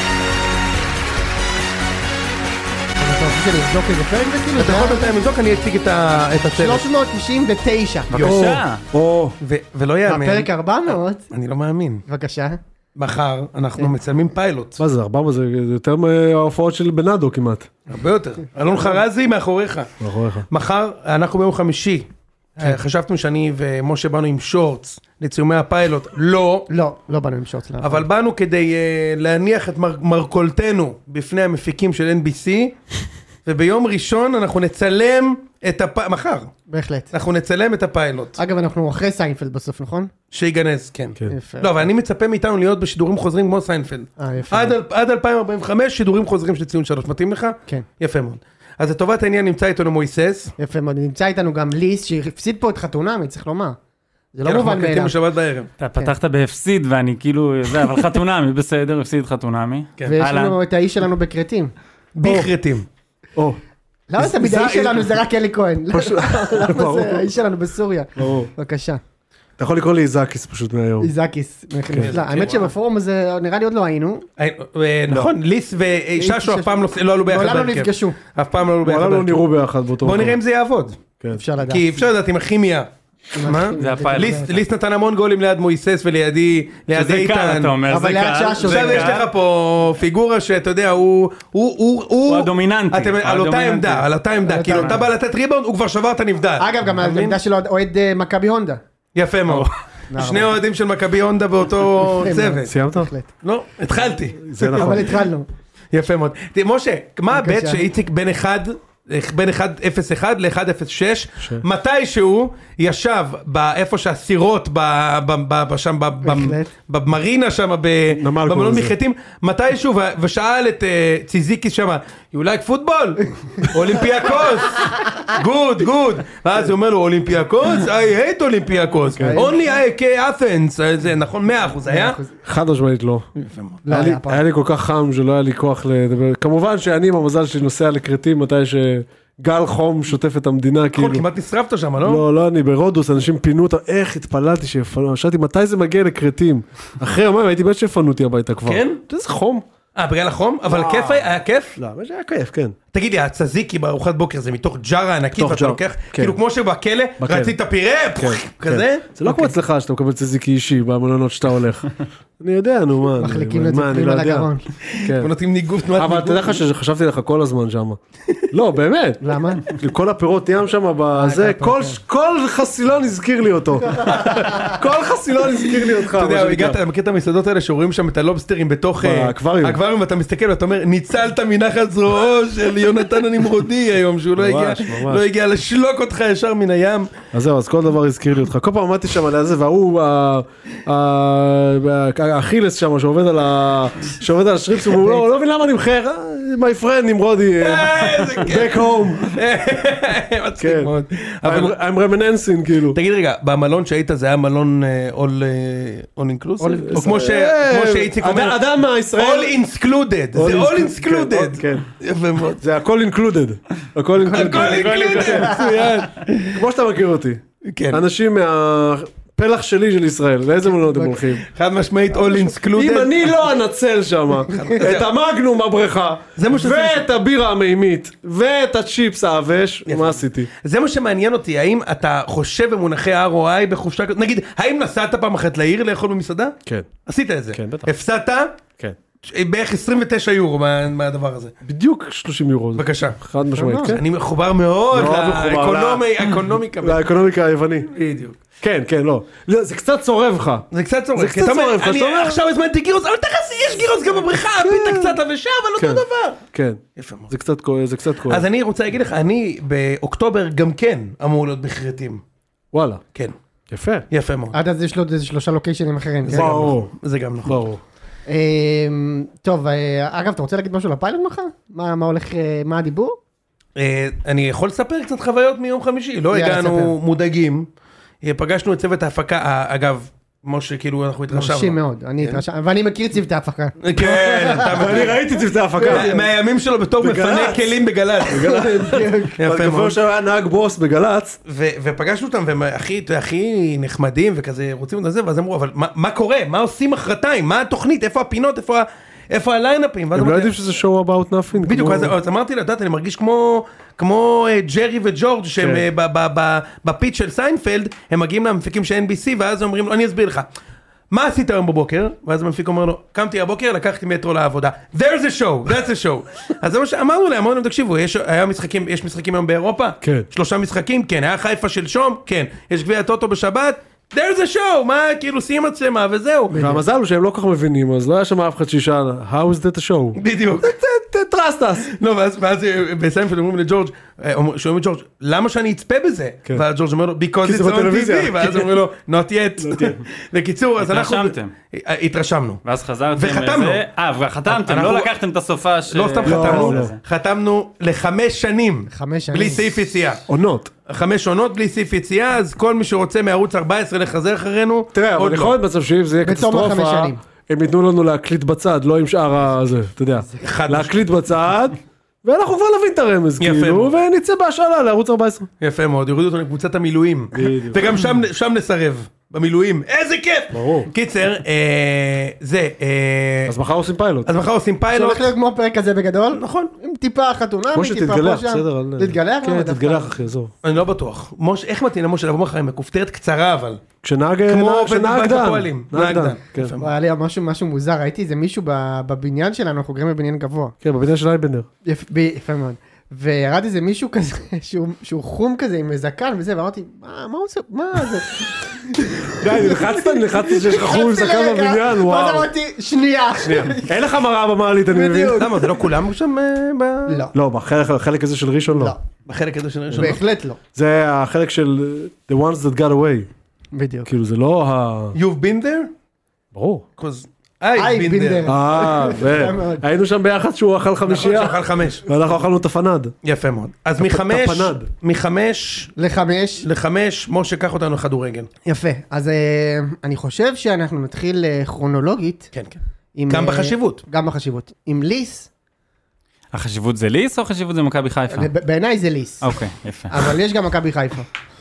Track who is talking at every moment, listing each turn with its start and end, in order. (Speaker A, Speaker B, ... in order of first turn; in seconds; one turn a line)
Speaker A: 3.0-5.1
Speaker B: 4.5-6.8
Speaker A: 6.6-8.1
Speaker B: 8.1-8.4
Speaker C: 8.1-8.8
Speaker D: 8.2-9.3
Speaker B: 9.4-12.0
Speaker A: 10.0-11.3
Speaker A: 12.1-12.6
Speaker B: 12.9-14.8
Speaker D: 14.8-17.7
Speaker B: 17.9-19.9
Speaker D: 20.0-20.4
Speaker B: 20.5-26.7
Speaker A: 26.7-28.1
Speaker B: 27.8-32.8
Speaker B: 33.4-36.5
Speaker A: 36.7-37.1
Speaker B: 37.1-38.4
Speaker A: 38.4-40.1
Speaker B: 40.3-50.5
Speaker A: 41.3-41.9
Speaker A: 44.2-44.8
Speaker A: 50.6-53.8
Speaker A: 54.3-55.1
Speaker B: 54.4-55.7
Speaker C: 55.8-60.5
Speaker A: 60.0-61.7
Speaker B: 62.1-62.9
Speaker D: 62.2-62.5
Speaker A: 64.1-69.0
Speaker D: 64.2-65.1
Speaker D: 65.9-67.3
Speaker D: 68.2-68.5
Speaker D: 69.6-71.1
Speaker A: 71.0-74.2
Speaker B: 72.0-72.7
Speaker B: 74.4-79.4
Speaker A: 76.2-78.2
Speaker D: 78.8-80.4
Speaker B: 80.0-81.0
Speaker A: 81.3-82.0
Speaker B: 81.7-87.8
Speaker A: 83.3-84.6
Speaker C: 83.8-84.5
Speaker C: 86.9-89.2
Speaker A: 87.8-89.2
Speaker B: 88.7-97.3
Speaker C: 92.2-94.1
Speaker A: 94.4-95.0
Speaker C: 94.7-95.0
Speaker A: 96.6-98.8
Speaker B: 99.1-102.7
Speaker A: 100.1-100.5
Speaker A: 102.2-103.3
Speaker D: 102.7-103.1
Speaker B: 103.4-105.1
Speaker D: 104.4-105.1
Speaker A: 104.7-105.5
Speaker B: 105.9-132.2
Speaker A: 107.3-107.8
Speaker A: 116.2-116.7
Speaker D: 118.1-118.9
Speaker D: 129.2-129.5
Speaker A: 129.2-129.6
Speaker A: 131.9-132.3
Speaker D: 132.4-133.3
Speaker B: 133.3-133.8
Speaker A: 133.8-134.4
Speaker D: 133.9-141.2
Speaker B: 140.9-142.2
Speaker D: 142.0-149.6
Speaker B: 148.7-149.0
Speaker B: 149.9-151.8
Speaker D: 150.7-152.8
Speaker B: 152.9-159.0
Speaker D: 155.3-156.4
Speaker D: 157.2-157.5
Speaker D: 158.2-164.5
Speaker A: 163.2-164.7
Speaker B: 165.0-166.6
Speaker D: 165.0-165.3
Speaker D: 165.9-168.0
Speaker D: 168.5-176.8
Speaker A: 169.2-169.6
Speaker A: 171.2-172.0
Speaker B: 174.0-174.8
Speaker B: 176.0-187.1
Speaker D: 179.0-179.8
Speaker D: 184.3-185.2
Speaker D: 187.3-199.3
Speaker B: 197.6-201.7
Speaker D: 200.6-200.9
Speaker D: 201.4-203.0
Speaker B: 202.9-208.6
Speaker A: 206.6-207.0
Speaker D: 206.8-209.5
Speaker B: 209.2-212.6
Speaker D: 210.3-211.8
Speaker D: 212.6-215.9
Speaker B: 214.3-216.6
Speaker C: 214.3-216.0
Speaker D: 216.5-221.4
Speaker B: 217.7-218.0
Speaker B: 221.4-223.3
Speaker D: 222.2-230.5
Speaker B: 224.5-225.1
Speaker B: 226.4-227.0
Speaker B: 229.8-236.5
Speaker B: 237.1-238.6
Speaker D: 237.5-237.9
Speaker B: 239.2-241.5
Speaker D: 241.6-244.0
Speaker B: 242.8-243.2
Speaker A: 243.5-244.0
Speaker B: 243.8-247.0
Speaker D: 244.9-246.0
Speaker D: 246.8-247.9
Speaker B: 247.9-248.4
Speaker D: 248.6-252.4
Speaker B: 250.7-256.4
Speaker D: 254.6-255.2
Speaker D: 255.8-258.4
Speaker B: 256.9-257.3
Speaker B: 258.3-262.2
Speaker D: 262.7-263.0
Speaker D: 263.7-264.1
Speaker B: 264.1-264.6
Speaker A: 264.5-266.7
Speaker B: 266.2-267.6
Speaker D: 266.3-266.9
Speaker D: 267.4-267.8
Speaker A: 268.3-273.2
Speaker B: 273.8-277.7
Speaker A: 276.3-277.0
Speaker B: 278.2-282.4
Speaker A: 281.3-285.1
Speaker B: 283.8-285.2
Speaker D: 283.9-286.2
Speaker A: 285.8-286.2
Speaker B: 285.9-289.9
Speaker D: 287.0-287.8
Speaker D: 288.3-291.4
Speaker A: 288.4-289.4
Speaker B: 291.4-300.5
Speaker D: 300.1-302.1
Speaker B: 301.6-310.5
Speaker D: 305.6-305.8
Speaker B: 311.1-326.6
Speaker D: 320.0-320.3
Speaker A: 326.5-326.8
Speaker D: 326.5-331.9
Speaker B: 330.1-330.7
Speaker B: 331.8-342.6
Speaker D: 337.4-338.8
Speaker D: 339.6-340.0
Speaker C: 340.8-341.5
Speaker C: 342.6-347.0
Speaker B: 343.1-343.8
Speaker B: 344.5-345.1
Speaker B: 345.9-350.2
Speaker D: 346.2-346.9
Speaker A: 348.9-349.7
Speaker D: 350.3-350.7
Speaker B: 350.9-355.5
Speaker D: 354.9-365.5
Speaker A: 356.2-357.2
Speaker B: 360.4-361.0
Speaker B: 363.4-363.9
Speaker B: 365.6-373.5
Speaker D: 367.3-367.8
Speaker D: 370.5-370.9
Speaker D: 373.4-374.3
Speaker B: 374.2-375.3
Speaker A: 374.9-380.1
Speaker B: 376.3-376.7
Speaker D: 377.7-380.5
Speaker B: 380.6-383.8
Speaker D: 384.0-386.8
Speaker B: 384.5-386.9
Speaker A: 386.8-390.7
Speaker D: 390.8-391.7
Speaker A: 391.8-404.0
Speaker D: 399.4-402.5
Speaker D: 403.4-405.5
Speaker A: 404.9-405.8
Speaker B: 405.3-407.2
Speaker A: 407.1-407.3
Speaker D: 407.3-408.9
Speaker B: 409.2-410.2
Speaker A: 409.9-410.6
Speaker D: 410.7-413.3
Speaker A: 413.7-414.1
Speaker D: 414.1-415.1
Speaker B: 415.1-415.9
Speaker D: 416.5-416.8
Speaker B: 417.0-418.6
Speaker A: 417.7-419.8
Speaker D: 418.4-423.1
Speaker B: 421.1-422.1
Speaker B: 423.2-425.9
Speaker D: 424.0-424.9
Speaker A: 425.9-426.6
Speaker B: 426.6-428.5
Speaker A: 428.6-432.5
Speaker B: 432.5-434.0
Speaker A: 433.1-435.5
Speaker C: 436.5-438.5
Speaker A: 438.3-439.4
Speaker C: 439.4-440.3
Speaker A: 440.1-441.2